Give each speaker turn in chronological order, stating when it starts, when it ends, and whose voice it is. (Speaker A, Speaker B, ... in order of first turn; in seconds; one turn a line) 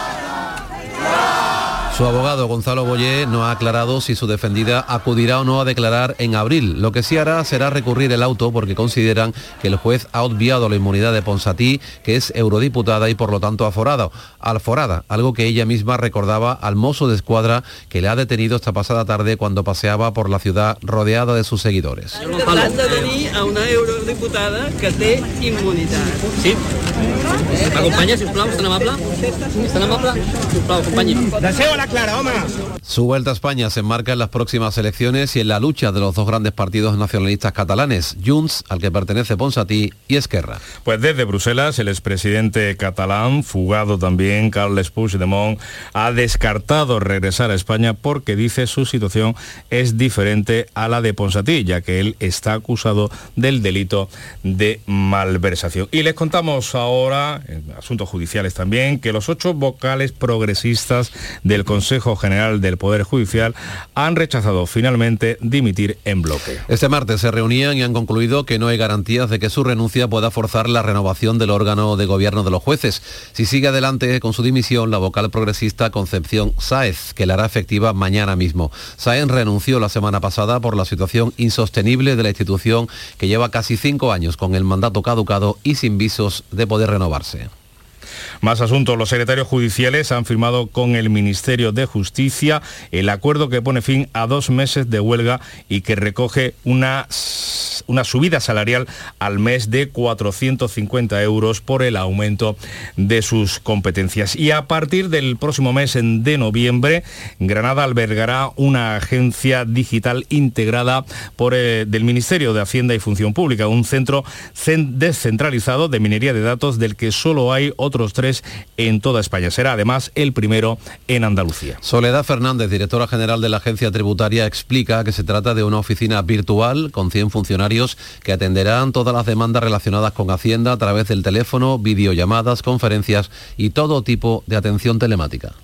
Speaker A: 1.9-22.2
Speaker B: 22.3-26.6
Speaker B: 27.7-31.5
Speaker A: 32.8-40.6
Speaker C: 40.8-66.6
Speaker A: 66.7-87.5
Speaker C: 88.4-121.8
Speaker A: 121.8-135.5